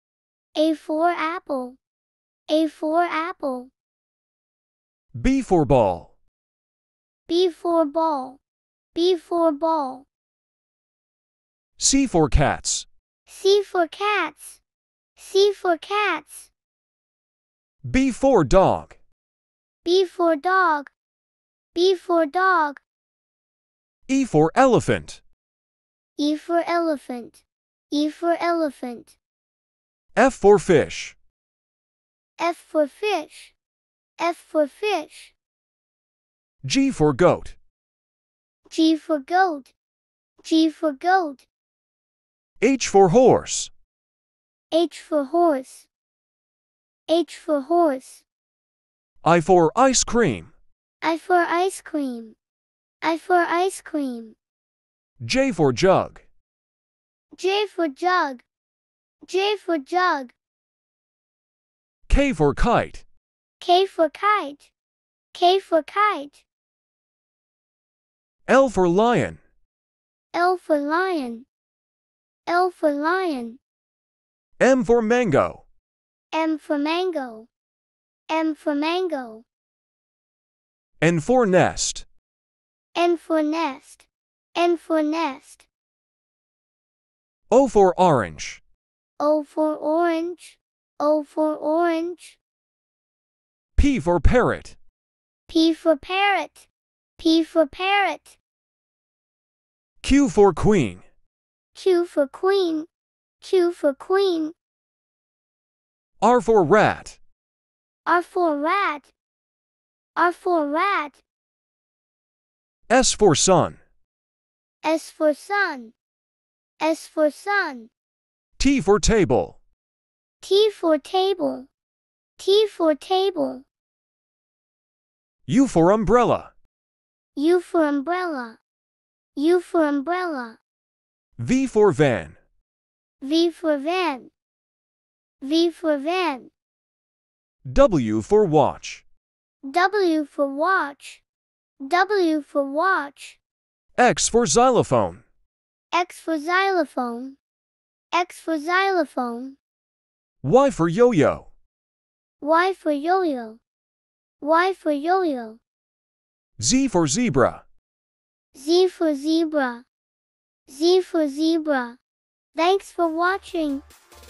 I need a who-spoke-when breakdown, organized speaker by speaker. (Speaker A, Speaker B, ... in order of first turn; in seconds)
Speaker A: 0.6-1.8, 2.5-3.7, 7.3-8.4, 8.9-10.1, 13.3-14.6, 15.2-16.5, 19.8-20.9, 21.8-22.8, 26.2-29.2, 32.4-33.6, 34.2-35.4, 38.7-39.7, 40.4-41.5, 44.7-45.9, 47.1-48.2, 51.0-52.4, 53.0-54.4, 57.4-58.5, 59.2-60.4, 63.6-64.7, 65.3-66.5, 70.3-71.5, 72.5-73.6, 76.3-77.5, 78.3-79.5, 83.0-85.7, 89.2-92.4, 95.5-98.4, 101.8-102.9, 103.4-104.5, 108.1-109.1, 110.2-111.2, 114.8-116.0, 116.8-117.9, 120.4-121.7, 122.4-123.7, 127.4-128.6, 129.3-130.6, 133.2-134.3, 135.4-136.5, 139.7-141.2, 141.8-143.4, 145.9-147.4, 148.1-149.6, 152.4-153.6, 154.4-155.6, 158.6-159.9, 160.7-162.0, 162.6-163.8
Speaker B: 5.2-6.1, 11.8-12.9, 17.9-19.0, 24.1-25.2, 30.1-31.2, 36.6-37.6, 42.6-43.7, 49.2-50.5, 55.2-56.2, 62.1-63.0, 68.5-69.4, 74.6-75.7, 81.0-82.1, 87.5-88.6, 93.8-94.8, 100.0-101.0, 106.2-107.2, 112.9-113.8, 118.6-119.6, 125.5-126.5, 131.4-132.4, 137.7-139.1, 144.0-145.2, 150.4-151.5, 156.6-157.6